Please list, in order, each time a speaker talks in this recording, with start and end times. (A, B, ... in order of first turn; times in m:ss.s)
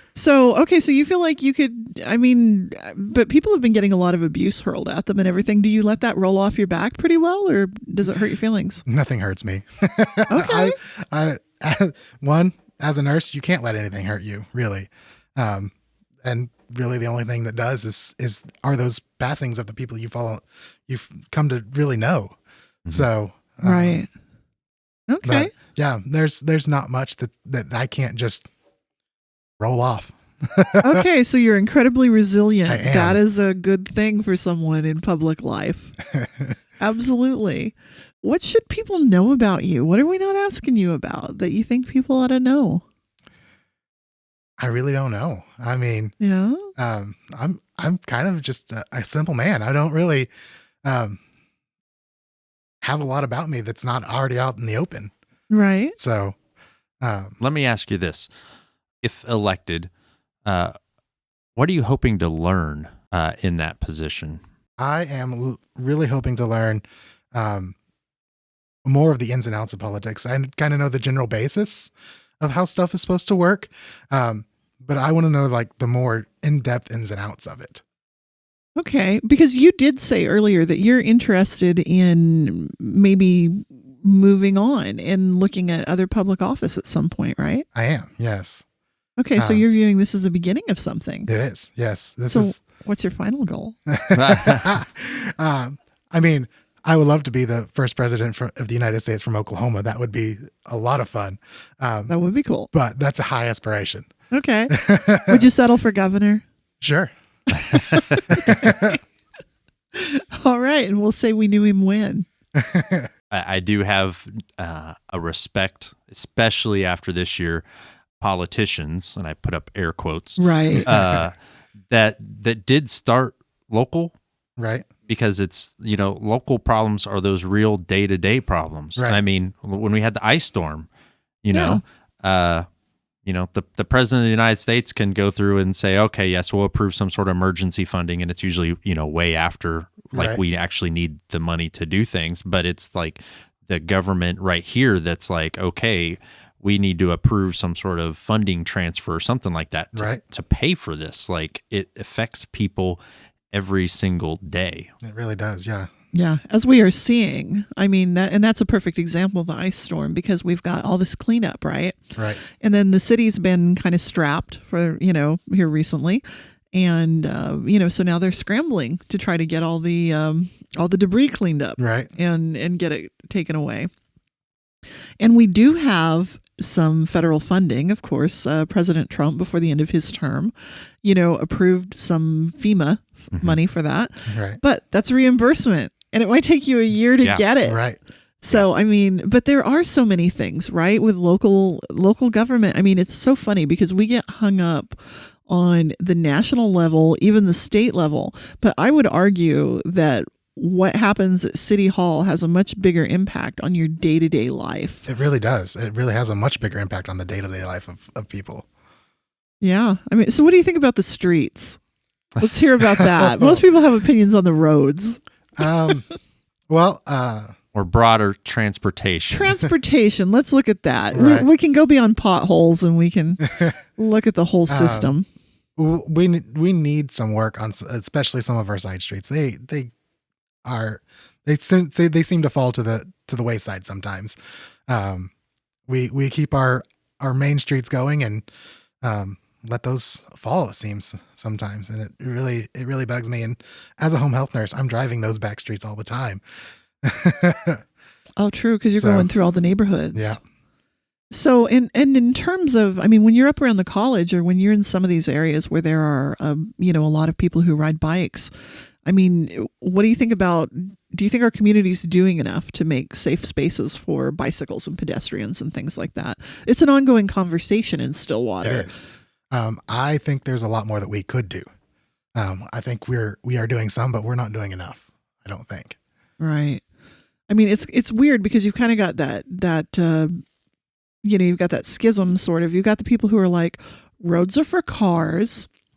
0:00.1-0:08.8 A
0:08.9-0:22.4 B
0:10.3-0:10.8 A
0:22.9-0:24.0 B
0:23.6-0:24.1 A
0:25.1-0:25.5 A
0:25.2-0:28.5 B
0:29.6-0:31.0 B
0:30.8-0:36.0 A
0:32.7-0:33.2 B
0:36.1-0:36.6 B
0:36.8-0:42.8 A
0:44.6-0:46.1 B
0:46.2-0:46.7 A
0:46.8-0:50.3 B
0:50.8-0:51.2 B
0:52.8-0:55.1 B
0:55.5-0:56.0 A
0:56.0-0:56.4 B
0:57.0-0:57.4 B
0:57.4-0:58.3 C
0:59.0-0:59.9 C
1:00.4-1:00.7 C
1:01.6-1:04.4 C
1:04.8-1:07.7 B
1:08.8-1:17.8 B
1:18.8-1:27.7 A
1:27.7-1:28.6 B
1:29.2-1:31.3 A
1:29.4-1:29.6 B
1:31.3-1:32.6 B
1:32.3-1:33.7 A
1:33.9-1:42.1 B
1:34.1-1:34.7 C
1:42.1-1:42.7 A
1:42.7-1:44.1 B
1:44.3-1:46.4 A
1:44.7-1:45.4 B
1:46.8-1:47.1 B
1:47.6-1:49.0 B
1:47.7-1:48.2 C
1:47.7-1:48.8 A
1:49.9-1:52.3 A
1:52.6-1:53.1 B
1:53.3-1:57.6 C
1:58.2-2:01.3 C
2:00.4-2:00.9 A
2:00.7-2:01.2 B
2:01.9-2:04.1 C
2:04.6-2:04.9 B
2:05.1-2:10.9 C
2:11.4-2:12.7 C
2:11.5-2:11.8 A
2:13.2-2:33.0 C
2:20.1-2:20.4 B
2:29.9-2:30.2 B
2:33.5-2:34.9 C
2:35.0-2:35.9 B
2:36.1-2:46.2 A
2:42.2-2:42.4 B
2:46.7-2:53.9 A
2:51.8-2:52.1 B
2:55.2-3:07.8 A
3:04.3-3:04.6 B
3:07.6-3:08.0 B
3:08.4-3:25.1 A
3:25.1-3:28.7 B
3:29.6-3:31.8 A
3:32.4-3:35.2 A
3:33.0-3:33.6 B
3:35.6-3:36.0 B
3:36.7-3:37.5 B
3:37.7-3:39.5 C
3:39.3-3:45.2 A
3:41.1-3:41.5 B
3:44.7-3:45.1 B
3:45.8-3:49.9 B
3:50.6-3:54.4 B
3:54.9-3:55.3 B
3:55.9-3:58.4 B
3:59.0-4:06.4 B
4:07.0-4:07.8 B
4:08.4-4:10.4 A
4:09.0-4:09.3 B
4:11.3-4:18.5 A
4:19.0-4:28.9 A
4:28.6-4:29.0 B
4:29.5-4:31.6 B
4:32.4-4:36.0 B
4:36.4-4:36.8 A
4:37.5-4:40.4 A
4:41.2-4:45.7 A